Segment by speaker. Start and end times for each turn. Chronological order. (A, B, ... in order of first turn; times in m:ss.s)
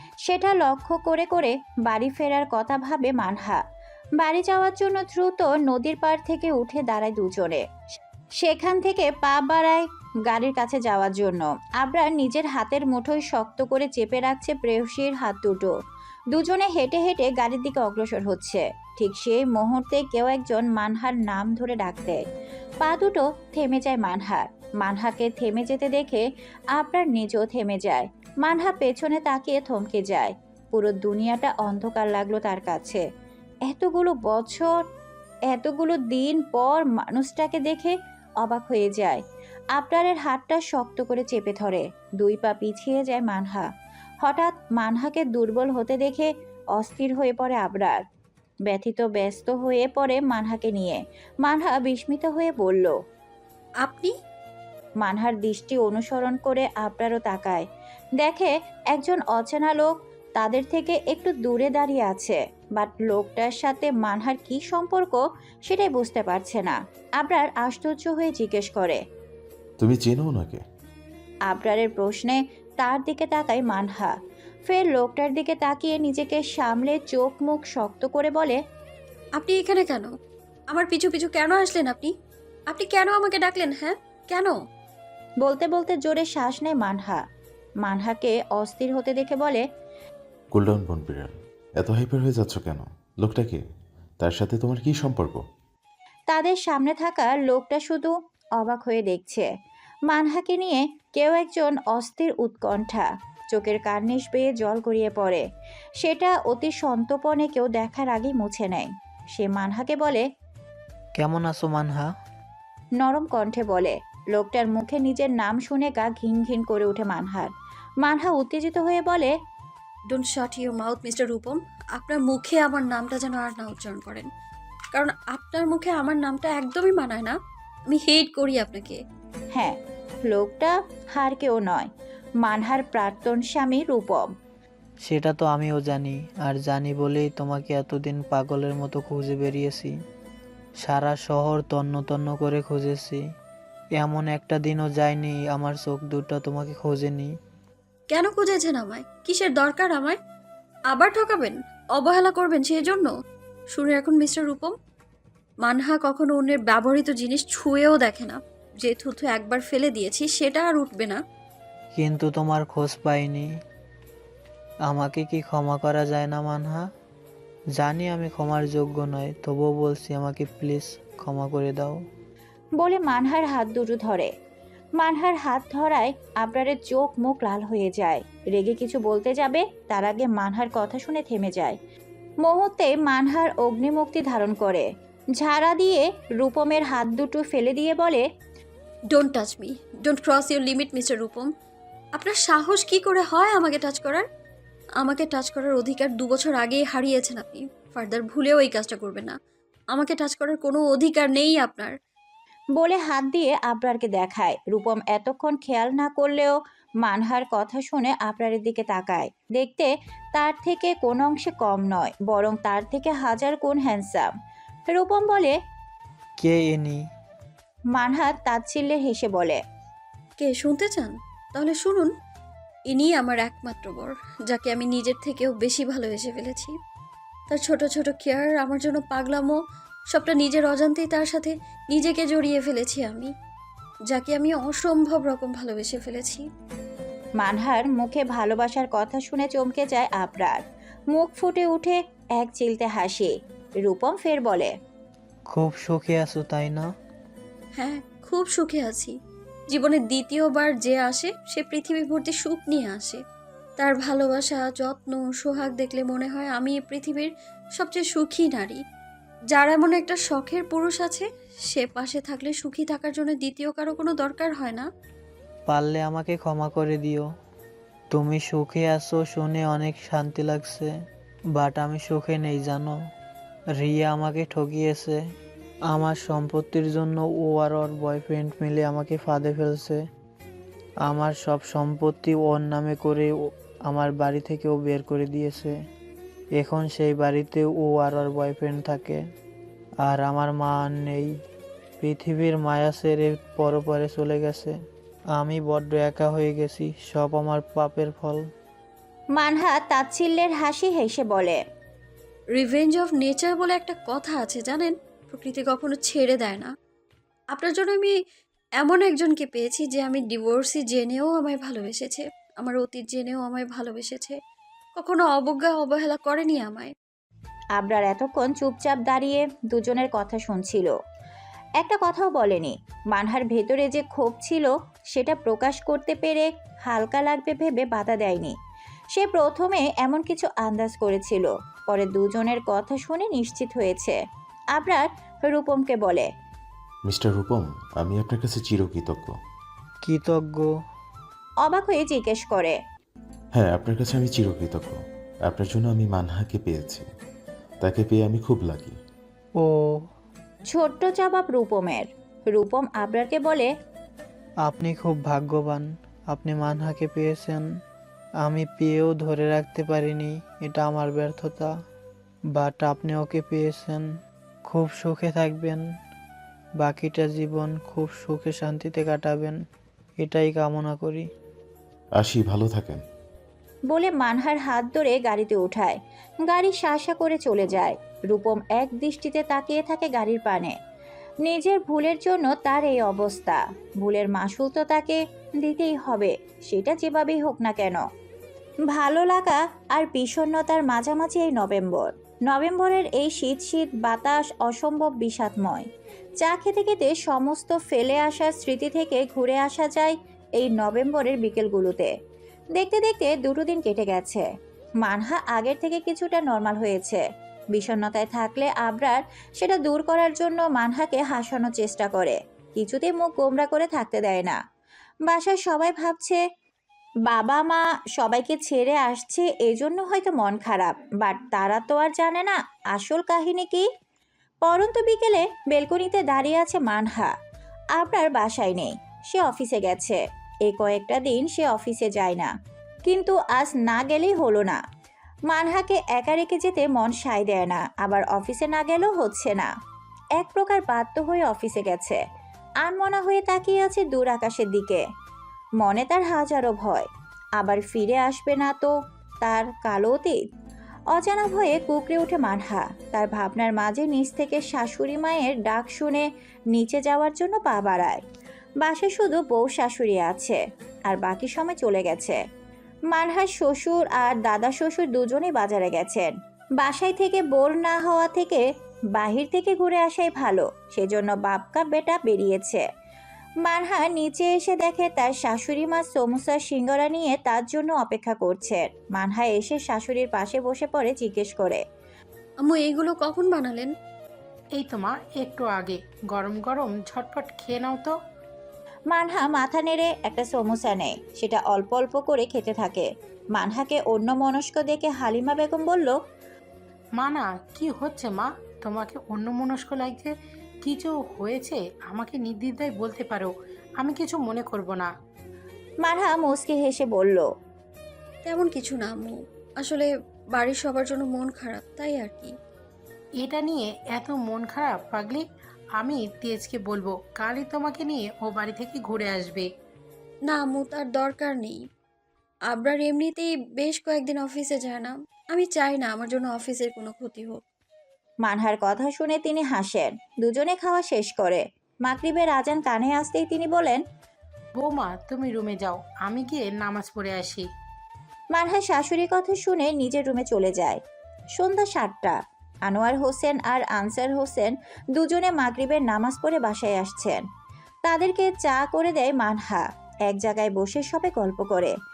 0:00.3-0:03.6 A
0:04.2-0:07.6 A
0:08.4-0:15.7 A
0:16.3-0:22.2 A
0:22.8-0:26.2 A
0:26.8-0:33.0 A
0:33.7-0:34.8 A
0:35.5-0:39.2 A
0:39.8-0:43.7 A
0:44.2-0:48.0 A
0:48.7-0:52.9 A
0:53.8-0:54.1 B
0:55.0-0:57.6 A
0:58.2-1:09.0 A
1:09.8-1:10.6 C
1:11.5-1:14.1 A
1:14.7-1:18.6 A
1:19.4-1:20.1 B
1:20.7-1:22.1 B
1:22.7-1:24.5 B
1:25.4-1:27.2 A
1:27.8-1:29.6 A
1:30.5-1:33.6 C
1:34.2-1:35.4 C
1:36.3-1:39.5 A
1:40.1-1:45.4 A
1:46.0-1:50.2 A
1:51.2-1:52.1 D
1:53.0-1:57.5 A
1:58.0-1:59.3 A
2:00.1-2:04.3 B
2:04.9-2:07.4 B
2:07.9-2:09.0 B
2:10.3-2:11.9 A
2:12.4-2:14.2 A
2:15.0-2:19.9 D
2:20.8-2:23.2 D
2:24.0-2:27.3 D
2:28.1-2:30.2 B
2:30.9-2:33.1 B
2:33.7-2:34.7 B
2:35.6-2:41.2 B
2:41.9-2:43.5 D
2:44.9-2:46.8 D
2:47.8-2:52.0 D
2:52.8-2:54.3 A
2:55.0-3:01.8 A
3:02.4-3:04.9 A
3:05.4-3:08.2 A
3:09.1-3:11.5 B
3:12.2-3:14.2 B
3:15.0-3:19.4 B
3:19.9-3:22.0 B
3:22.8-3:34.3 A
3:34.9-3:35.6 A
3:36.4-3:37.0 D
3:37.9-3:39.6 A
3:40.4-3:42.1 B
3:42.9-3:46.7 B
3:47.5-3:49.6 B
3:50.1-3:53.3 B
3:54.1-3:56.4 B
3:57.4-4:00.6 A
4:01.1-4:04.7 A
4:05.5-4:06.9 D
4:07.8-4:09.1 B
4:09.7-4:13.2 B
4:13.8-4:18.8 B
4:19.5-4:24.9 B
4:25.7-4:27.2 D
4:28.1-4:30.9 D
4:31.6-4:32.9 D
4:33.8-4:35.2 D
4:35.9-4:40.0 D
4:41.0-4:43.3 D
4:43.9-4:45.7 D
4:46.6-4:49.2 D
4:50.0-4:51.3 D
4:52.0-4:54.7 D
4:55.4-4:58.4 D
4:59.4-5:01.6 A
5:02.6-5:06.7 B
5:07.5-5:08.1 B
5:08.8-5:14.4 B
5:15.0-5:16.9 B
5:17.8-5:20.9 A
5:21.8-5:28.6 A
5:29.1-5:34.2 A
5:34.7-5:36.3 A
5:37.1-5:39.4 C
5:40.0-5:40.7 D
5:41.6-5:42.8 A
5:43.5-5:47.1 C
5:47.8-5:49.0 C
5:49.6-5:50.0 D
5:50.7-5:53.7 A
5:54.6-5:57.6 D
5:58.4-6:01.7 D
6:02.5-6:04.0 D
6:04.7-6:05.8 D
6:06.8-6:09.6 D
6:10.2-6:11.3 D
6:12.2-6:13.0 C
6:13.9-6:20.7 A
6:21.4-6:28.0 A
6:28.9-6:35.9 A
6:36.4-6:42.1 A
6:42.8-6:44.4 A
6:45.0-6:54.6 A
6:55.3-6:56.4 A
6:57.3-7:03.8 A
7:04.6-7:07.3 A
7:08.0-7:12.5 A
7:13.1-7:14.8 A
7:15.5-7:19.7 A
7:20.4-7:22.2 A
7:22.8-7:25.0 A
7:25.8-7:28.9 A
7:29.4-7:30.4 A
7:31.1-7:38.2 A
7:38.8-7:42.4 A
7:43.1-7:48.6 A
7:49.2-7:52.8 A
7:53.6-8:01.8 A
8:02.6-8:03.9 B
8:04.8-8:08.1 E
8:09.1-8:16.2 A
8:17.2-8:20.3 E
8:20.8-8:25.1 E
8:26.0-8:27.5 A
8:28.4-8:32.5 B
8:33.4-8:35.4 E
8:36.0-8:39.7 E
8:40.5-8:41.8 B
8:42.7-8:47.6 B
8:48.4-8:54.0 A
8:54.8-8:57.6 E
8:58.6-9:01.0 A
9:01.6-9:07.4 A
9:08.1-9:11.9 A